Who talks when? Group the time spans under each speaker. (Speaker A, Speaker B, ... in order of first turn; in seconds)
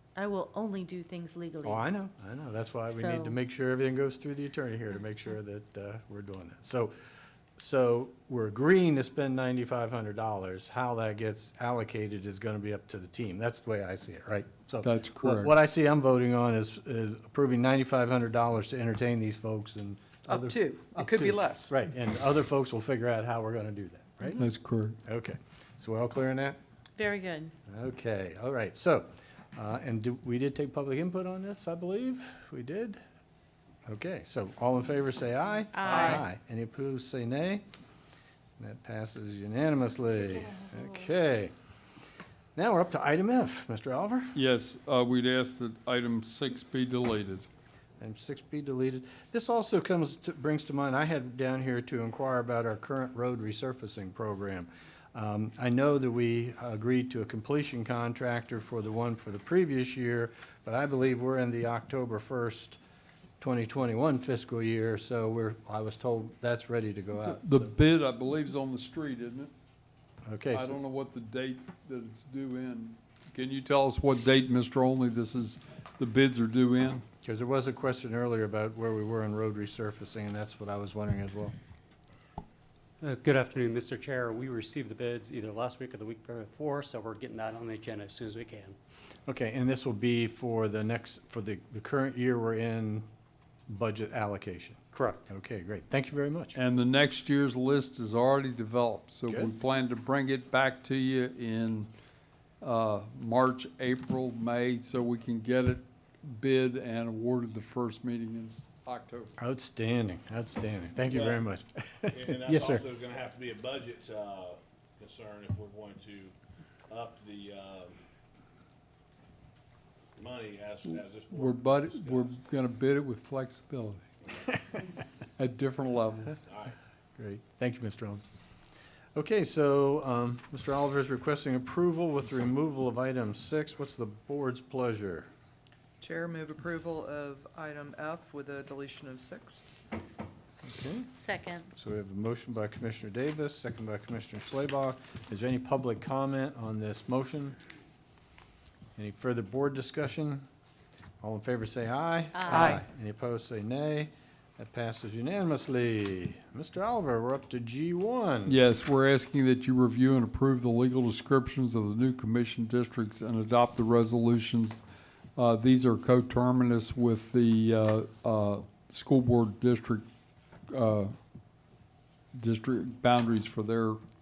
Speaker A: 0.2-1.8, 2.9-3.4, 27.0-27.5, 35.8-36.1, 141.2-141.7, 152.3-152.8
Speaker B: 1.6-6.9, 7.6-24.4, 25.1-26.6, 27.7-33.0, 33.9-37.6, 38.6-41.5, 42.6-44.4, 48.0-62.8, 63.4-67.7, 70.2-70.8, 77.2-81.5, 89.3-93.0, 93.7-96.6, 109.4-112.8, 127.2-128.2, 129.2-135.3, 140.6-141.1, 141.7-147.6, 148.9-150.4, 151.2-158.6
Speaker C: 14.8-15.5, 24.3-25.0, 44.3-47.5, 67.2-69.5, 70.5-77.0, 96.5-101.9, 102.6-109.3, 120.8-124.1, 125.4-126.4, 158.4-164.8, 165.4-170.1, 170.7-171.1, 172.3-174.0
Speaker D: 20.3-21.7, 136.1-139.6
Speaker E: 83.0-88.8, 94.9-95.2
Speaker F: 111.1-111.4, 112.1-116.3, 116.9-117.9, 120.2-122.3, 126.5-126.8